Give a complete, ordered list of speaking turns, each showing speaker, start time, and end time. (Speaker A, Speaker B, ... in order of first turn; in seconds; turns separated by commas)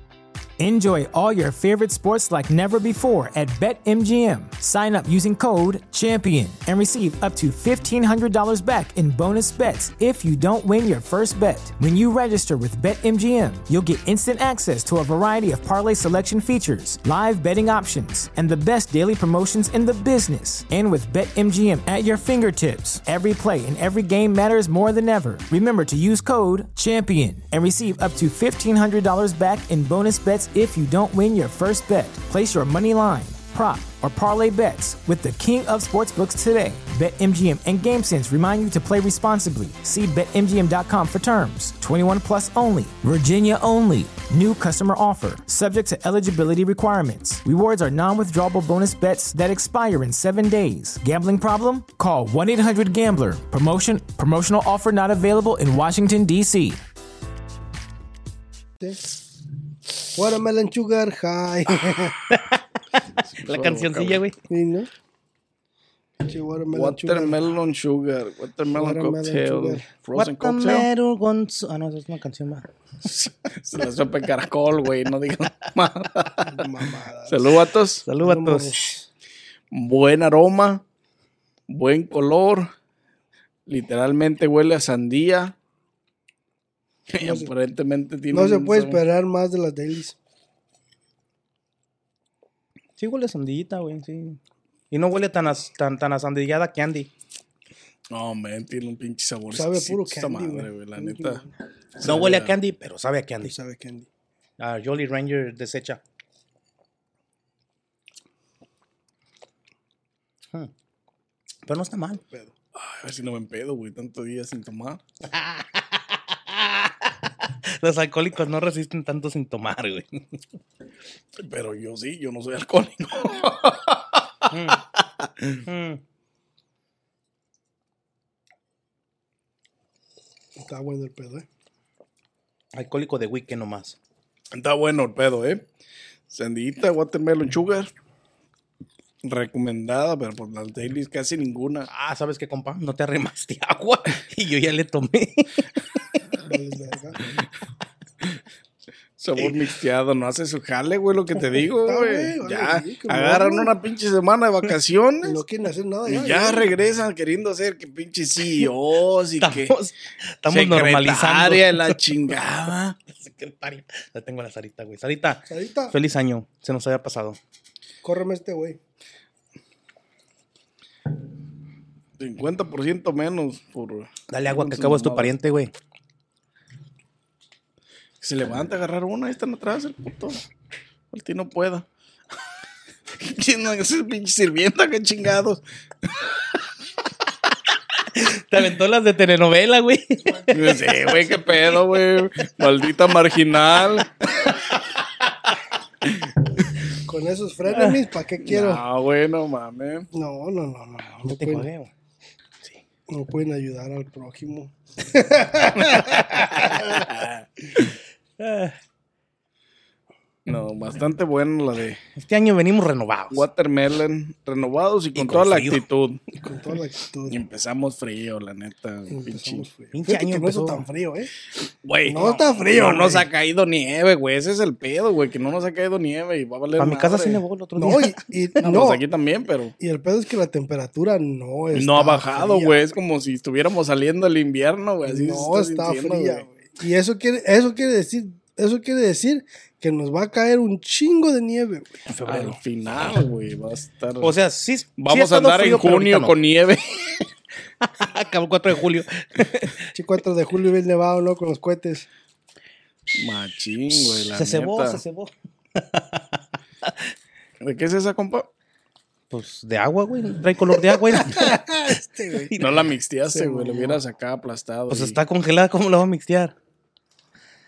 Speaker A: 0.6-56.8, Speaker B: 60.1-62.2, Speaker C: 62.3-64.4, Speaker D: 63.3-64.2, Speaker B: 64.5-64.9, Speaker B: 66.2-67.4, Speaker D: 66.7-70.9, Speaker B: 68.7-69.8, Speaker C: 70.1-72.7, Speaker D: 73.0-76.7, Speaker B: 76.4-77.5, Speaker D: 77.3-78.1, Speaker C: 78.0-78.8, Speaker B: 78.2-79.0, Speaker D: 79.7-80.8, Speaker D: 81.7-82.7, Speaker D: 83.7-85.5, Speaker D: 87.1-89.0, Speaker B: 87.2-87.5, Speaker B: 88.3-90.2, Speaker C: 93.0-94.4, Speaker C: 94.9-97.1, Speaker D: 98.1-101.4, Speaker B: 99.5-101.5, Speaker D: 101.9-102.5, Speaker C: 102.0-103.5, Speaker B: 103.4-104.1, Speaker C: 104.6-106.0, Speaker C: 111.7-112.2, Speaker D: 112.7-115.0, Speaker C: 115.2-120.2, Speaker D: 121.4-125.5, Speaker C: 124.5-124.8, Speaker C: 125.5-126.0, Speaker B: 130.6-131.4, Speaker C: 132.7-134.0, Speaker D: 134.5-135.6, Speaker D: 136.3-137.9, Speaker D: 139.2-141.9, Speaker C: 141.9-146.2, Speaker B: 146.4-147.2, Speaker D: 149.2-155.4, Speaker B: 151.8-153.7, Speaker B: 155.2-156.7, Speaker D: 156.1-159.7, Speaker C: 159.4-162.0, Speaker D: 160.5-162.9, Speaker C: 163.1-167.4, Speaker B: 165.5-166.0, Speaker B: 168.0-168.8, Speaker D: 172.2-175.3, Speaker C: 174.3-175.7, Speaker D: 178.2-180.4, Speaker D: 181.1-181.9, Speaker D: 183.2-186.3, Speaker C: 188.1-191.0, Speaker D: 190.5-194.5, Speaker B: 196.9-198.8, Speaker C: 197.7-197.9, Speaker D: 198.4-200.1, Speaker B: 200.1-201.7, Speaker C: 201.3-201.9, Speaker B: 203.1-207.1, Speaker D: 205.8-208.0, Speaker C: 208.4-208.7, Speaker D: 210.4-212.0, Speaker C: 212.2-213.5, Speaker D: 213.3-216.2, Speaker C: 215.1-215.8, Speaker B: 216.3-217.4, Speaker D: 217.3-219.7, Speaker B: 219.1-221.3, Speaker C: 219.9-220.9, Speaker D: 221.8-227.4, Speaker B: 222.1-223.3, Speaker C: 226.8-228.6, Speaker B: 227.8-229.0, Speaker D: 228.6-229.7, Speaker B: 229.8-232.8, Speaker D: 231.7-236.5, Speaker B: 235.0-242.5, Speaker D: 242.1-244.3, Speaker C: 244.2-246.3, Speaker D: 245.0-247.2, Speaker C: 247.8-249.9, Speaker B: 249.9-252.1, Speaker D: 253.1-255.0, Speaker C: 254.3-256.9, Speaker D: 257.6-258.5, Speaker C: 259.3-262.8, Speaker B: 260.9-262.6, Speaker D: 262.5-265.2, Speaker B: 263.2-264.0, Speaker C: 264.9-266.5